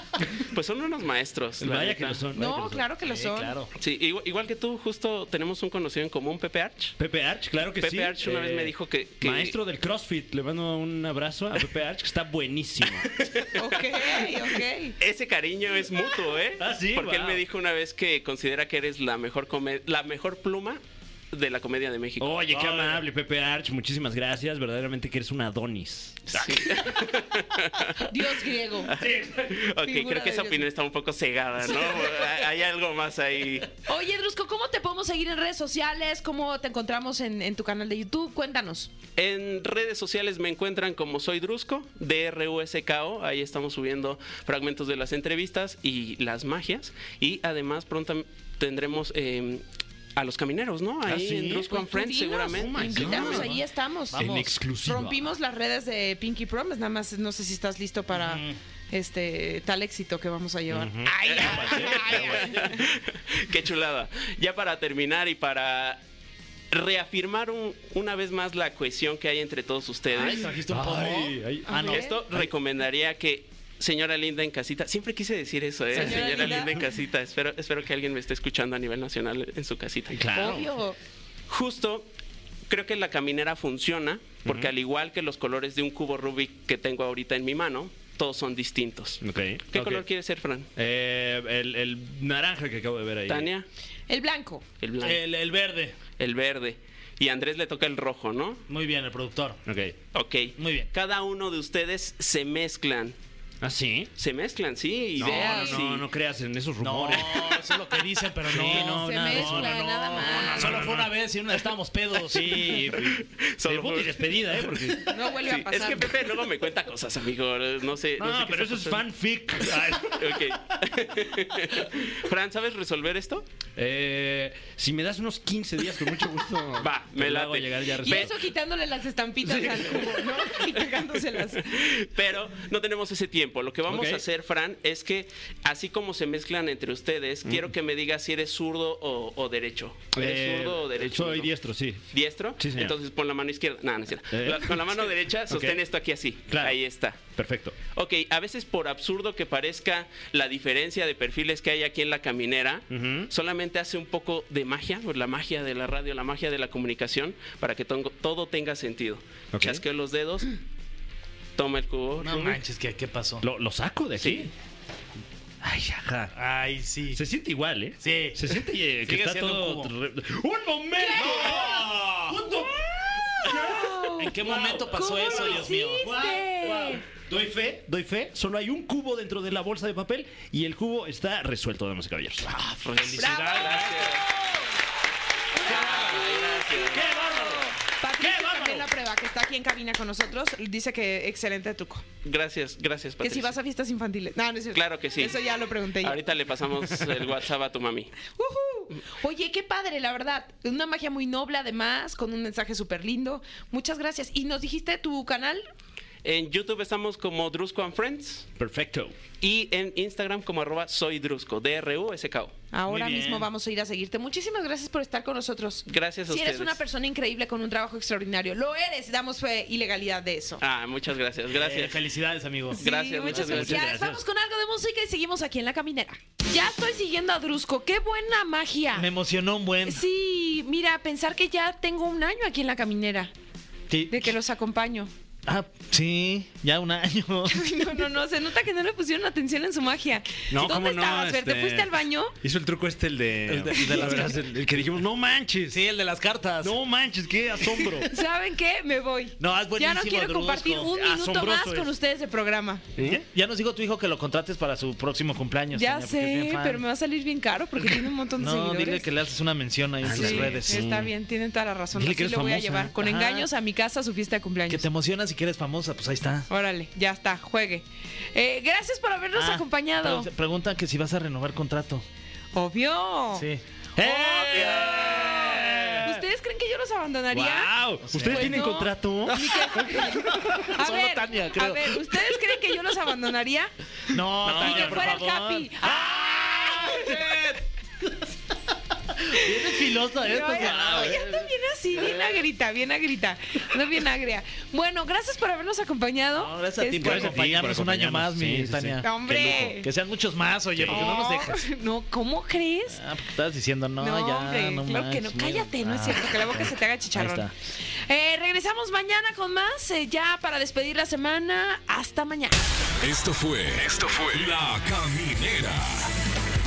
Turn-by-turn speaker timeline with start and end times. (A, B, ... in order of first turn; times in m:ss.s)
0:00.5-0:02.3 A
0:01.6-0:02.9 B
0:02.3-0:03.6 C
0:03.0-0:03.7 D
0:03.8-0:07.0 A
0:07.0-0:13.1 B
0:07.8-0:09.6 A
0:13.0-0:14.3 A
0:13.6-0:15.0 C
0:15.0-0:20.8 A
0:16.6-0:17.4 B
0:21.3-0:22.6 A
0:22.2-0:26.4 B
0:22.5-0:23.0 D
0:26.3-0:28.0 A
0:28.1-0:28.9 C
0:28.9-0:33.7 A
0:29.1-0:29.5 B
0:29.8-0:30.7 C
0:33.9-0:38.9 C
0:39.2-0:49.6 A
0:50.2-0:53.4 A
0:51.0-0:51.8 B
0:51.7-1:02.9 C
0:52.4-0:53.5 B
0:54.1-0:54.9 D
0:54.1-0:55.2 B
0:58.1-0:58.6 D
1:00.7-1:02.7 B
1:01.2-1:06.0 A
1:06.7-1:10.5 A
1:10.1-1:12.5 D
1:10.7-1:11.8 B
1:11.7-1:12.2 C
1:11.9-1:20.3 A
1:15.9-1:16.8 C
1:16.0-1:16.3 D
1:20.1-1:20.7 B
1:20.3-1:21.0 C
1:21.5-1:22.1 A
1:22.7-1:30.7 A
1:29.2-1:30.1 B
1:30.8-1:33.5 B
1:33.3-1:33.7 A
1:34.1-1:34.6 C
1:34.8-1:35.2 A
1:35.0-1:36.0 D
1:36.2-1:38.6 A
1:38.7-1:39.6 D
1:39.7-1:40.0 B
1:40.1-1:43.2 A
1:40.6-1:40.9 D
1:43.6-1:44.1 B
1:44.2-1:46.1 A
1:45.2-1:47.7 B
1:45.2-1:45.8 C
1:46.8-1:52.7 D
1:48.5-1:51.2 B
1:48.6-1:50.9 C
1:52.3-1:55.1 B
1:53.0-1:59.0 A
1:55.1-1:56.3 C
1:58.2-2:00.6 B
2:00.1-2:03.4 A
2:03.8-2:08.4 B
2:06.8-2:08.3 A
2:08.0-2:11.8 C
2:11.6-2:21.5 A
2:13.9-2:14.2 B
2:17.4-2:17.7 B
2:20.1-2:23.0 B
2:22.1-2:27.2 A
2:24.3-2:25.8 B
2:26.5-2:27.8 B
2:27.9-2:40.5 A
2:32.9-2:33.3 B
2:39.5-2:39.8 B
2:41.6-2:42.6 A
2:42.2-2:43.4 D
2:43.4-2:44.5 B
2:44.2-2:44.5 A
2:45.6-2:46.3 B
2:46.4-2:47.2 D
2:47.1-3:02.5 B
2:48.0-2:49.9 D
2:51.1-2:51.8 C
2:51.1-2:52.4 D
2:53.5-2:57.0 C
2:54.2-2:56.1 D
3:02.5-3:04.2 A
3:03.0-3:04.2 D
3:03.2-3:04.0 C
3:05.6-3:12.1 C
3:05.6-3:07.1 A
3:05.7-3:06.2 B
3:06.7-3:08.9 B
3:12.2-3:13.5 A
3:13.2-3:16.3 C
3:14.7-3:15.4 A
3:16.0-3:18.1 A
3:18.2-3:25.6 C
3:26.2-3:28.5 A
3:28.6-3:29.2 B
3:29.4-3:32.6 A
3:32.7-3:40.6 C
3:32.9-3:33.5 D
3:35.9-3:36.8 A
3:40.6-3:42.0 A
3:41.5-3:42.8 D
3:42.8-3:43.9 A
3:42.8-3:49.1 C
3:43.3-3:44.2 B
3:49.0-3:50.0 D
3:49.8-3:53.3 C
3:53.9-3:54.3 D
3:54.1-3:55.1 C
3:55.5-3:57.8 D
3:57.5-4:02.4 C
4:00.5-4:05.8 B
4:03.5-4:04.4 D
4:03.8-4:04.2 C
4:05.7-4:06.8 D
4:06.6-4:08.1 B
4:08.0-4:12.9 C
4:09.4-4:10.9 D
4:10.9-4:11.9 B
4:13.0-4:13.2 B
4:13.0-4:16.8 D
4:15.7-4:19.1 C
4:17.8-4:20.9 D
4:20.0-4:21.1 B
4:20.0-4:24.9 C
4:22.0-4:23.5 D
4:24.7-4:26.5 D
4:26.5-4:30.3 C
4:29.4-4:32.0 D
4:32.5-4:33.5 C
4:33.4-4:36.1 D
4:34.0-4:36.2 B
4:34.3-4:37.7 C
4:37.3-4:40.6 B
4:38.0-4:38.8 D
4:38.2-4:43.7 C
4:39.8-4:42.2 D
4:44.1-4:47.6 D
4:44.4-4:45.3 B
4:44.4-4:47.3 C
4:49.2-4:51.5 D
4:49.4-4:57.4 C
4:50.8-4:51.1 B
4:56.4-5:01.6 D
4:56.9-4:59.5 B
4:59.0-4:59.9 C
5:00.7-5:01.1 B
5:00.9-5:03.0 C
5:03.0-5:07.5 D
5:04.0-5:07.5 C
5:08.1-5:12.7 C
5:13.0-5:16.1 E